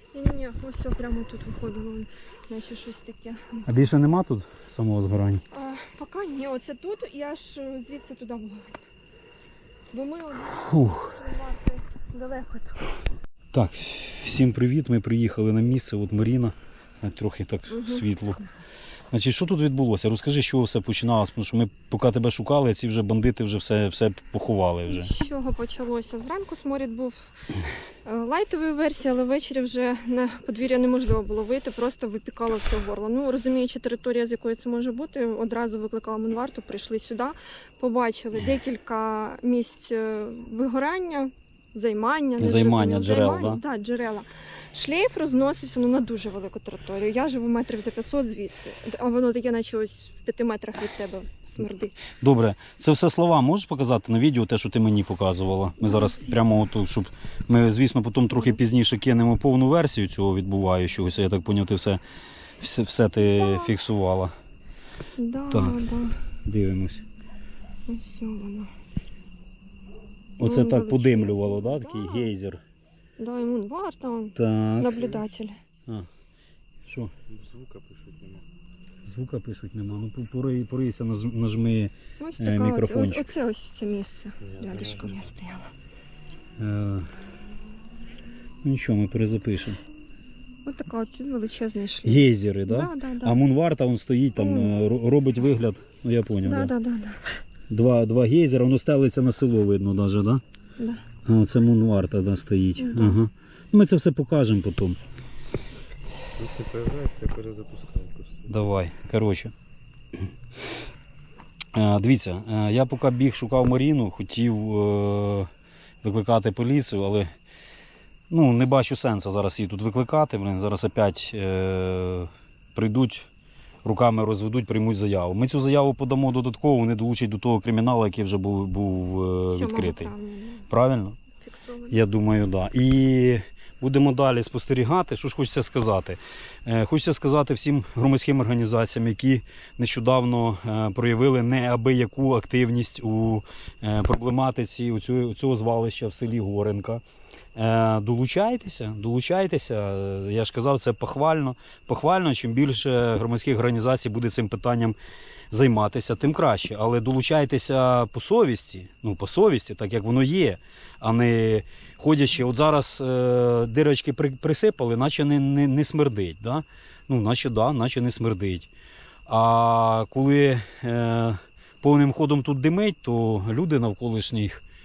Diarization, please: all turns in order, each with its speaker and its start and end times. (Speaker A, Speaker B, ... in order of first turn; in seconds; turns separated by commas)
Speaker A: 0.1-3.6, Speaker B: 3.6-5.4, Speaker A: 5.5-8.8, Speaker A: 9.9-13.0, Speaker B: 10.6-11.1, Speaker B: 13.5-18.4, Speaker A: 17.7-18.1, Speaker B: 19.1-25.1, Speaker A: 24.9-27.3, Speaker A: 28.1-52.0, Speaker B: 42.4-43.6, Speaker B: 52.2-62.0, Speaker A: 55.8-56.7, Speaker A: 58.3-58.6, Speaker B: 62.6-64.3, Speaker A: 63.2-63.8, Speaker A: 65.2-66.2, Speaker B: 65.5-65.8, Speaker B: 66.5-67.0, Speaker A: 67.9-68.7, Speaker A: 70.4-72.3, Speaker B: 70.4-72.6, Speaker A: 73.2-75.6, Speaker B: 74.4-75.1, Speaker B: 76.9-77.1, Speaker C: 77.3-78.5, Speaker B: 79.0-83.3, Speaker A: 82.2-85.7, Speaker C: 84.6-85.2, Speaker B: 86.6-87.1, Speaker B: 88.6-89.8, Speaker A: 90.7-93.4, Speaker B: 92.0-96.7, Speaker A: 94.4-94.7, Speaker A: 96.4-97.4, Speaker B: 97.7-100.4, Speaker A: 100.8-101.0, Speaker B: 101.3-105.0, Speaker A: 102.8-103.2, Speaker C: 106.3-108.5, Speaker B: 108.5-109.5, Speaker B: 111.7-115.5, Speaker B: 116.0-117.3, Speaker B: 118.3-123.3, Speaker B: 123.8-130.1, Speaker A: 129.5-130.7, Speaker B: 130.7-131.2, Speaker A: 131.4-132.0, Speaker B: 131.9-147.0, Speaker B: 147.6-155.0, Speaker B: 155.5-168.7, Speaker B: 169.3-174.6